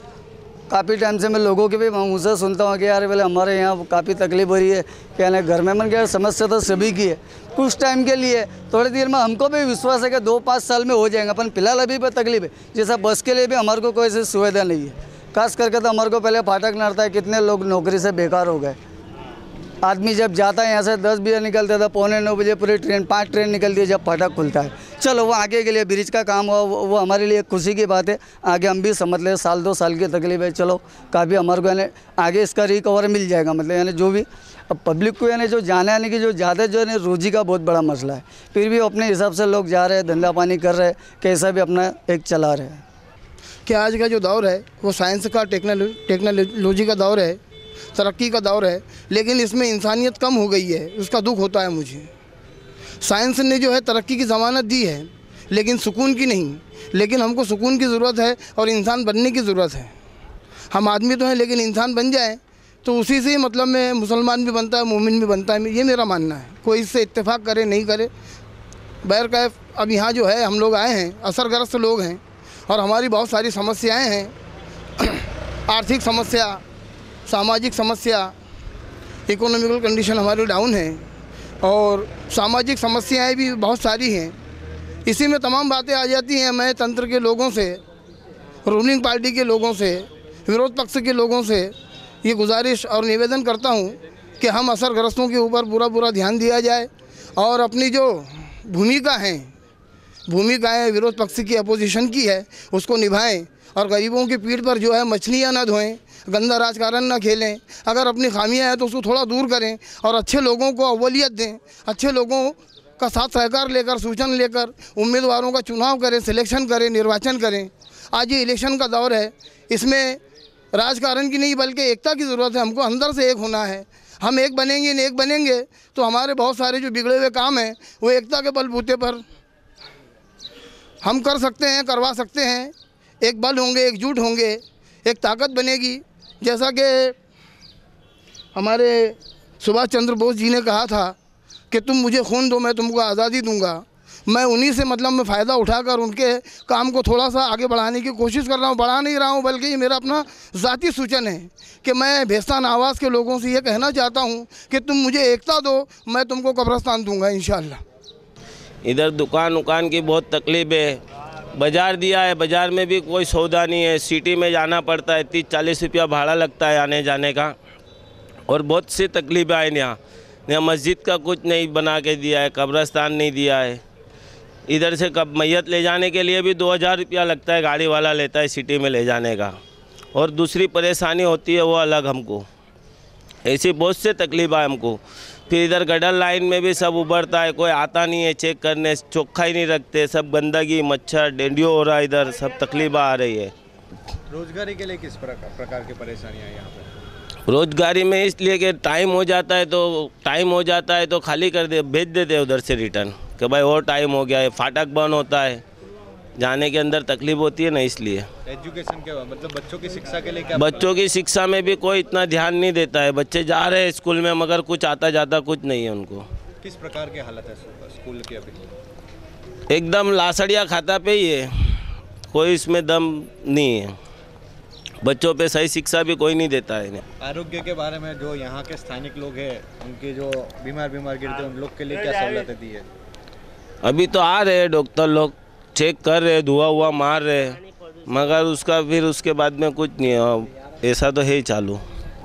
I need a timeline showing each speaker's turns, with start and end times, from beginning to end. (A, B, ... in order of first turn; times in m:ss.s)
0:00.7-0:18.8 A
0:19.8-0:42.8 A
0:43.6-0:47.4 B
0:47.9-0:52.1 B
0:53.0-0:59.9 B
1:00.7-1:08.1 B
1:09.0-1:14.3 B
1:15.0-1:16.6 B
1:17.3-1:18.3 B
1:19.3-1:21.0 B
1:21.6-1:24.3 B
1:25.0-1:27.8 B
1:28.6-1:39.5 B
1:40.3-2:00.2 B
2:00.7-2:09.2 B
2:11.0-2:17.2 B
2:18.5-2:21.2 B
2:21.7-2:37.8 B
2:38.8-2:41.0 C
2:41.6-2:47.5 C
2:48.5-2:53.8 C
2:54.7-2:59.6 C
3:00.1-3:02.4 C
3:03.4-3:13.5 C
3:14.3-3:16.9 D
3:17.5-3:25.6 C
3:26.4-3:28.3 C
3:28.4-3:31.0 D
3:30.6-3:36.2 C
3:36.6-3:38.8 D
3:39.7-3:41.8 C
3:42.3-3:44.0 C
3:45.0-3:47.0 C
3:47.2-3:52.9 D
3:53.8-4:01.8 C